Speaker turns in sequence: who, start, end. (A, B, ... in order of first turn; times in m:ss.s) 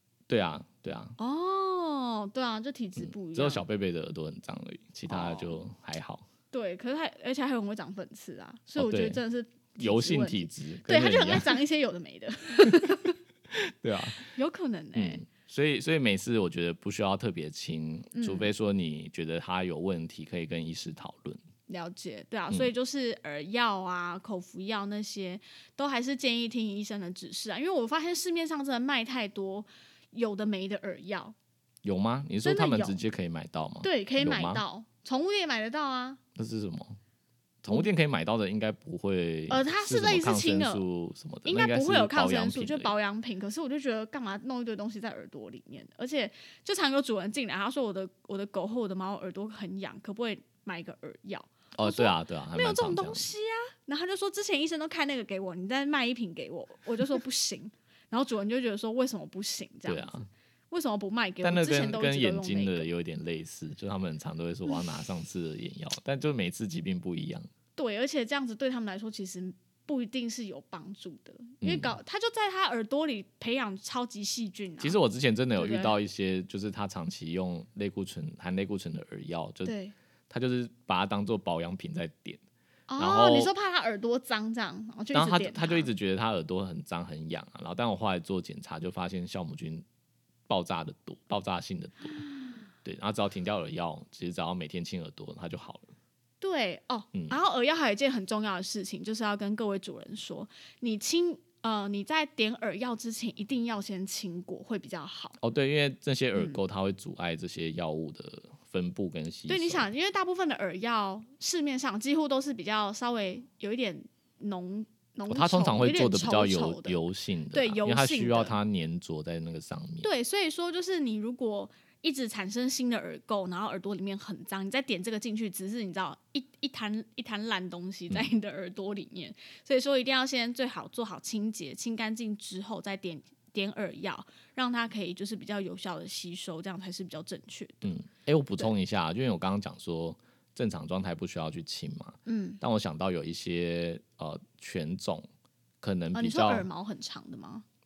0:00.3-0:01.2 A
0:01.2-0:03.6 B
0:03.0-0:06.2 A
0:05.1-0:05.6 B
0:06.5-0:13.2 B
0:08.8-0:09.2 A
0:09.8-0:11.6 A
0:12.7-0:13.0 A
0:13.5-0:14.3 A
0:14.3-0:15.2 B
0:14.9-0:21.4 A
0:18.1-0:18.5 B
0:21.7-0:31.3 B
0:31.8-0:34.6 A
0:32.4-0:33.0 B
0:33.8-0:36.2 B
0:36.3-0:37.0 A
0:37.6-0:42.9 A
0:39.5-0:40.8 B
0:41.4-1:02.9 B
0:51.7-0:53.2 A
0:59.8-1:00.3 A
1:01.4-1:07.5 A
1:07.8-1:15.0 B
1:11.6-1:12.0 A
1:14.8-1:19.7 A
1:15.6-1:16.0 B
1:19.6-1:19.9 B
1:20.3-1:22.4 A
1:22.9-1:25.9 B
1:23.0-1:23.5 A
1:25.1-1:29.8 A
1:30.5-1:32.2 A
1:32.8-1:35.9 A
1:36.4-1:45.4 B
1:45.4-1:49.9 A
1:49.5-1:57.0 B
1:55.3-2:00.1 A
1:57.5-1:58.6 B
2:00.0-2:17.9 B
2:17.8-2:25.2 A
2:22.2-2:22.6 B
2:25.8-2:26.6 A
2:26.1-2:27.6 B